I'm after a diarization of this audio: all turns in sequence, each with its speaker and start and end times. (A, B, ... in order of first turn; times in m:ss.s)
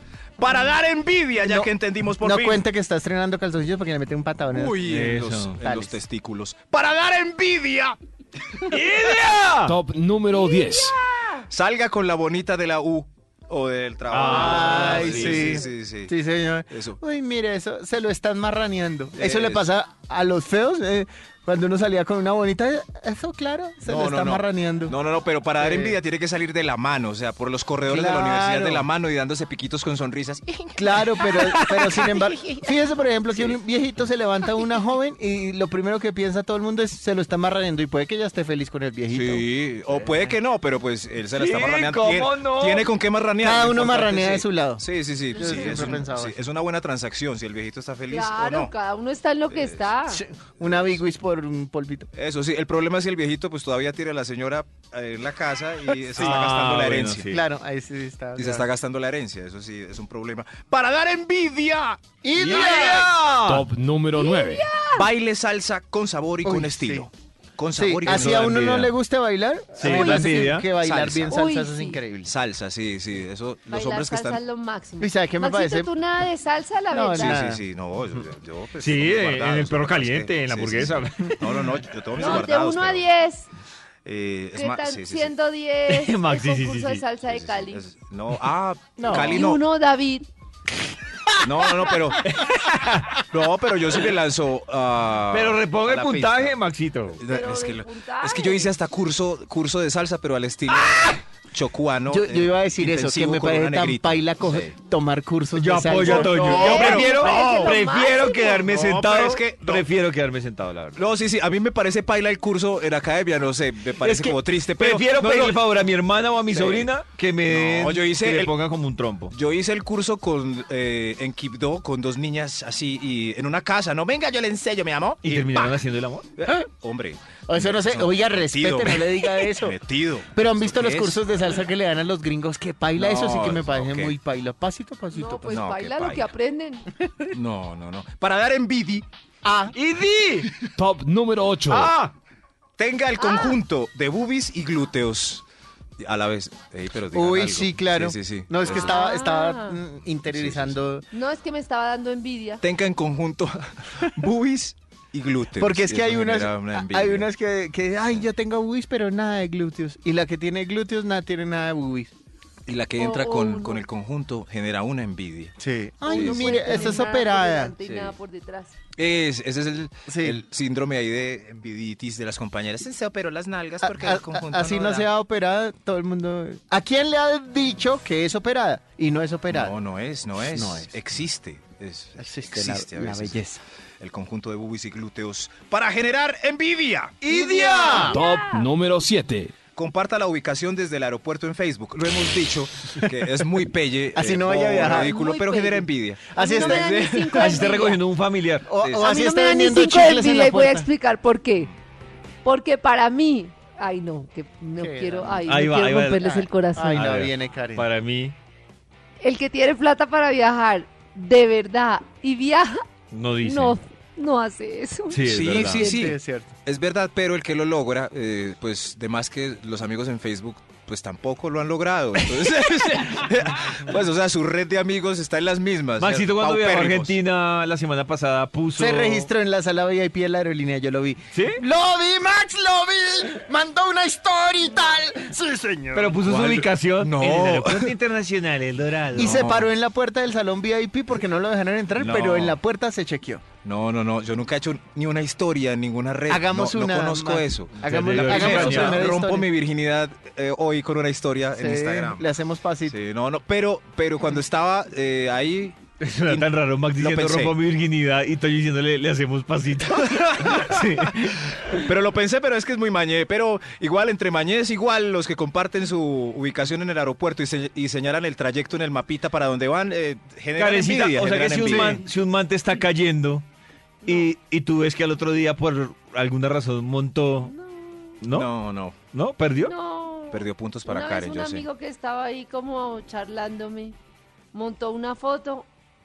0:00.4-0:02.6 A
0:01.4-0:04.9 B
0:04.5-0:08.0 A
0:04.8-0:05.6 C
0:05.6-0:06.0 B
0:08.7-0:09.8 C
0:09.6-0:11.0 D
0:10.5-0:11.2 E
0:11.5-0:16.1 A
0:14.1-0:15.7 C
0:14.2-0:25.0 B
0:16.7-0:17.0 A
0:19.2-0:19.7 A
0:23.8-0:32.7 A
0:25.6-0:26.0 B
0:27.9-0:28.8 B
0:30.8-0:39.5 B
0:31.2-0:32.1 C
0:33.3-0:33.6 A
0:39.1-0:48.7 A
0:41.3-0:43.0 C
0:43.4-0:46.4 B
0:48.1-0:50.2 E
0:49.5-0:49.9 A
0:50.1-0:52.1 B
0:52.1-0:57.3 A
0:56.0-0:56.4 B
0:56.2-0:57.4 C
0:57.3-0:58.7 B
0:58.4-1:03.0 A
1:02.2-1:03.1 B
1:02.4-1:03.6 C
1:03.4-1:04.7 D
1:04.2-1:05.1 E
1:05.0-1:08.7 A
1:06.4-1:07.1 B
1:07.8-1:12.3 B
1:08.0-1:08.9 C
1:09.8-1:10.8 C
1:09.8-1:11.4 A
1:11.3-1:12.0 E
1:12.2-1:14.4 A
1:13.7-1:17.5 E
1:15.0-1:15.9 B
1:16.9-1:17.6 B
1:17.2-1:23.1 A
1:18.8-1:21.8 C
1:22.2-1:23.5 E
1:24.0-1:25.3 A
1:24.5-1:27.8 E
1:25.9-1:27.0 C
1:27.2-1:29.6 A
1:29.0-1:29.4 B
1:29.1-1:30.3 E
1:31.4-1:32.2 A
1:31.7-1:32.2 B
1:32.2-1:33.2 C
1:33.3-1:36.6 A
1:35.3-1:37.2 C
1:37.2-1:44.7 A
1:37.3-1:38.7 E
1:42.1-1:47.1 B
1:45.6-1:51.0 C
1:46.0-1:47.8 A
1:46.1-1:48.7 E
1:48.6-1:49.9 A
1:51.0-1:55.6 A
1:54.0-1:59.4 C
1:54.1-1:54.3 B
1:56.5-1:56.9 A
1:57.5-1:58.5 A
1:59.3-2:05.8 A
2:05.2-2:06.3 C
2:06.4-2:11.2 A
2:07.5-2:09.8 B
2:10.3-2:15.7 B
2:13.0-2:14.2 A
2:15.1-2:16.9 E
2:15.5-2:16.3 A
2:17.3-2:19.1 A
2:19.4-2:19.8 B
2:19.7-2:20.5 C
2:20.8-2:22.0 D
2:21.7-2:22.1 C
2:22.8-2:25.4 A
2:23.2-2:23.6 E
2:26.0-2:29.0 A
2:27.1-2:31.1 B
2:28.7-2:29.8 E
2:30.3-2:30.8 A
2:31.1-2:32.6 E
2:32.6-2:37.3 A
2:35.6-2:42.1 B
2:42.7-2:45.6 A
2:43.0-2:43.8 E
2:45.6-2:47.7 B
2:46.0-2:48.7 E
2:46.1-2:47.0 A
2:47.8-2:48.1 A
2:49.0-2:55.1 A
2:50.1-2:50.4 B
2:53.8-2:59.8 B
2:59.5-3:03.4 A
3:00.4-3:00.9 B
3:02.2-3:03.6 B
3:04.0-3:08.0 A
3:07.3-3:08.2 B
3:07.3-3:08.7 E
3:07.5-3:08.1 C
3:08.0-3:09.5 D
3:09.7-3:17.6 A
3:14.2-3:15.1 B
3:14.8-3:18.0 E
3:16.3-3:17.0 B
3:17.3-3:18.7 C
3:18.7-3:20.9 B
3:18.8-3:19.1 A
3:19.0-3:21.7 E
3:22.4-3:27.1 E
3:24.8-3:25.7 B
3:25.5-3:26.4 C
3:26.2-3:27.9 B
3:26.9-3:28.4 C
3:29.2-3:32.8 E
3:33.1-3:33.8 C
3:33.4-3:35.3 E
3:35.1-3:36.0 C
3:35.2-3:47.2 A
3:35.8-3:36.0 E
3:35.9-3:36.6 B
3:46.0-3:49.3 C
3:48.8-3:56.2 B
3:51.3-3:51.6 C
3:56.0-3:59.5 C
3:56.2-3:58.0 A
3:59.2-4:03.4 B
3:59.2-3:59.7 A
4:02.0-4:02.6 A
4:03.6-4:12.2 A
4:06.3-4:09.5 B
4:07.8-4:09.1 C
4:11.6-4:13.0 B
4:12.9-4:17.6 A
4:16.0-4:21.8 C
4:20.0-4:32.0 A
4:30.6-4:33.4 C
4:31.7-4:32.0 B
4:34.0-4:34.3 E
4:34.0-4:37.5 C
4:37.4-4:38.2 E
4:38.2-4:38.5 C
4:38.3-4:39.0 A
4:39.1-4:39.7 C
4:39.7-4:44.0 E
4:40.3-4:41.6 A
4:44.5-4:45.7 E